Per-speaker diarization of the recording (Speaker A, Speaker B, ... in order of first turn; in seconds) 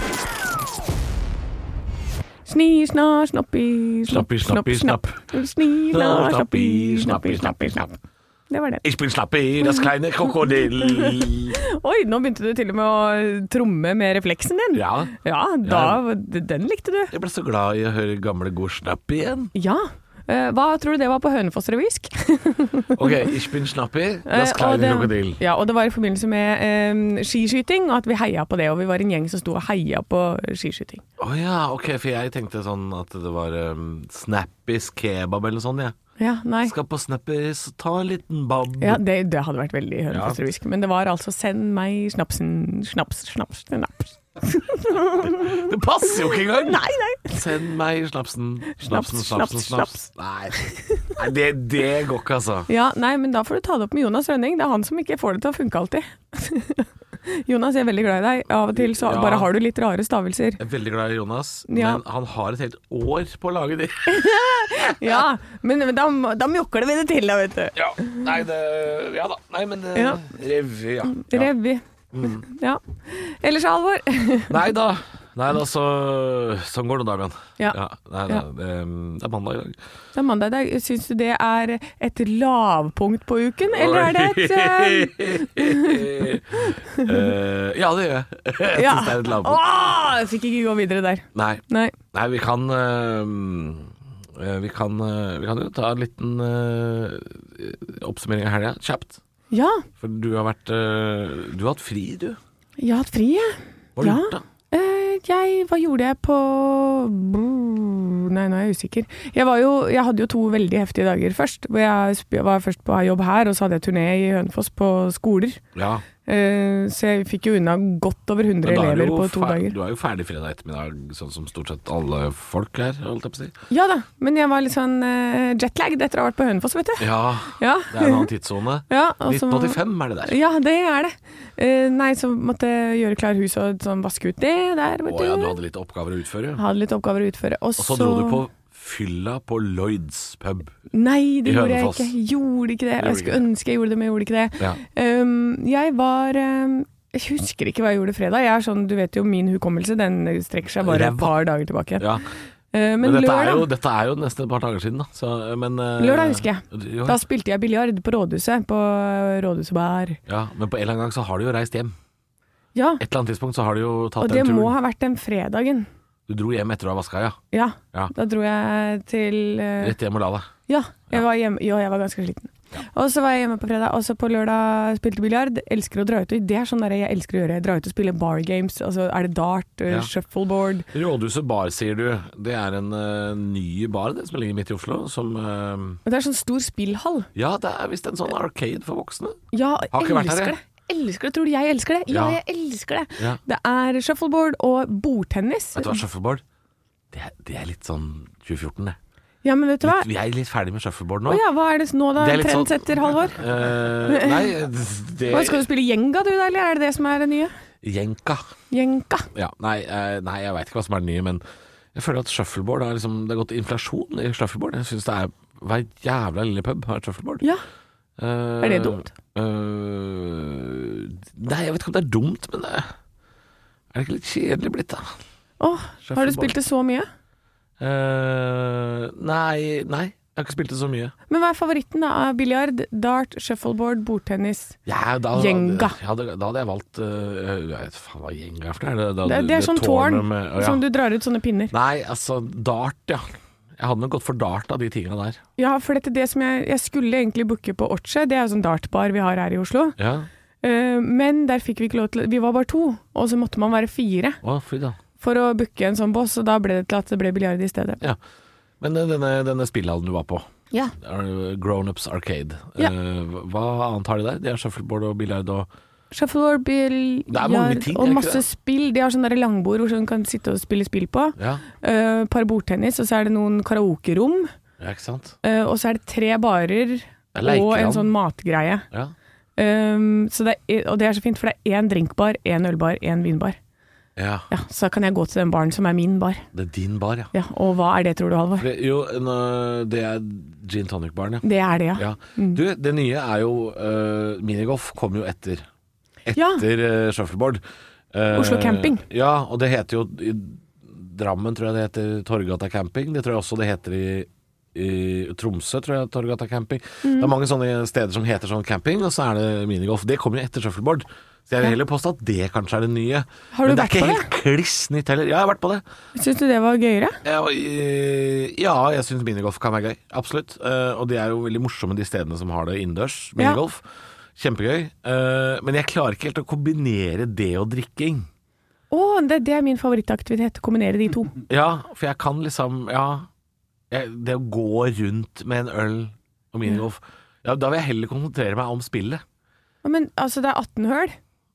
Speaker A: 2.5-7.9, 8.5-8.8, 10.5-17.1, 19.5-23.3, 24.3-31.0, 36.2-36.7, 38.8-47.5, 48.8-50.0, 50.6-51.1, 52.7-60.6, 61.7-62.0, 64.1-68.2, 69.9-70.2, 71.1-74.6, 77.6-78.5, 80.2-86.0, 86.6-87.3, 88.7-92.0, 99.5-99.8, 102.8-115.6, 116.3-119.8, 123.7-128.3, 128.9-135.6, 136.6-138.4, 140.9-152.1, 152.7-153.7, 156.0-160.2, 162.8-163.0, 164.2-165.9, 167.5-169.9, 170.7-180.9, 186.1-187.3, 189.5-196.0, 199.4-200.1, 201.2-203.4, 204.1-204.5, 205.3-207.5, 208.7-209.3, 218.6-219.1, 225.6-227.1, 231.3-234.8, 235.3-235.9, 239.2-241.7, 245.6-250.0, 250.6-254.4, 255.2-258.0, 266.1-274.5, 275.4-278.9, 279.6-283.6, 284.5-286.4, 287.3-288.7, 291.4-292.6, 296.3-296.6, 298.3-299.0, 307.0-307.3, 313.5-314.3, 316.1-317.2, 328.9-331.4, 339.8-341.1
Speaker B: 4.1-5.3, 5.9-7.9, 8.8-11.6, 14.7-16.0, 17.1-19.5, 22.9-25.4, 31.2-36.0, 36.6-39.0, 40.1-40.4, 45.2-46.8, 47.3-52.7, 58.8-59.5, 60.6-64.3, 64.8-65.2, 67.8-71.5, 72.1-72.5, 74.5-79.8, 83.7-89.6, 91.3-99.2, 100.0-102.4, 104.0-104.4, 115.8-116.0, 118.6-123.5, 127.0-130.4, 135.1-136.6, 137.8-140.8, 141.4-142.1, 143.0-143.4, 150.8-151.3, 152.0-152.2, 153.0-157.2, 160.3-161.9, 163.0-164.7, 166.3-167.4, 169.8-170.5, 180.9-186.0, 187.3-189.4, 189.9-190.6, 192.1-192.4, 195.8-196.4, 197.1-199.0, 199.8-201.4, 202.2-205.6, 207.8-208.5, 209.3-211.4, 211.9-217.4, 218.2-222.9, 223.9-225.1, 226.1-226.5, 227.8-231.1, 234.9-240.8, 241.7-245.4, 250.0-250.3, 254.4-255.0, 258.8-260.4, 261.0-265.7, 267.3-268.4, 271.4-271.6, 274.8-275.4, 277.3-278.1, 284.2-284.5, 286.5-287.3, 288.6-291.4, 291.9-295.7, 296.2-315.8, 317.2-323.8, 324.4-328.3, 331.5-333.3, 333.9-339.2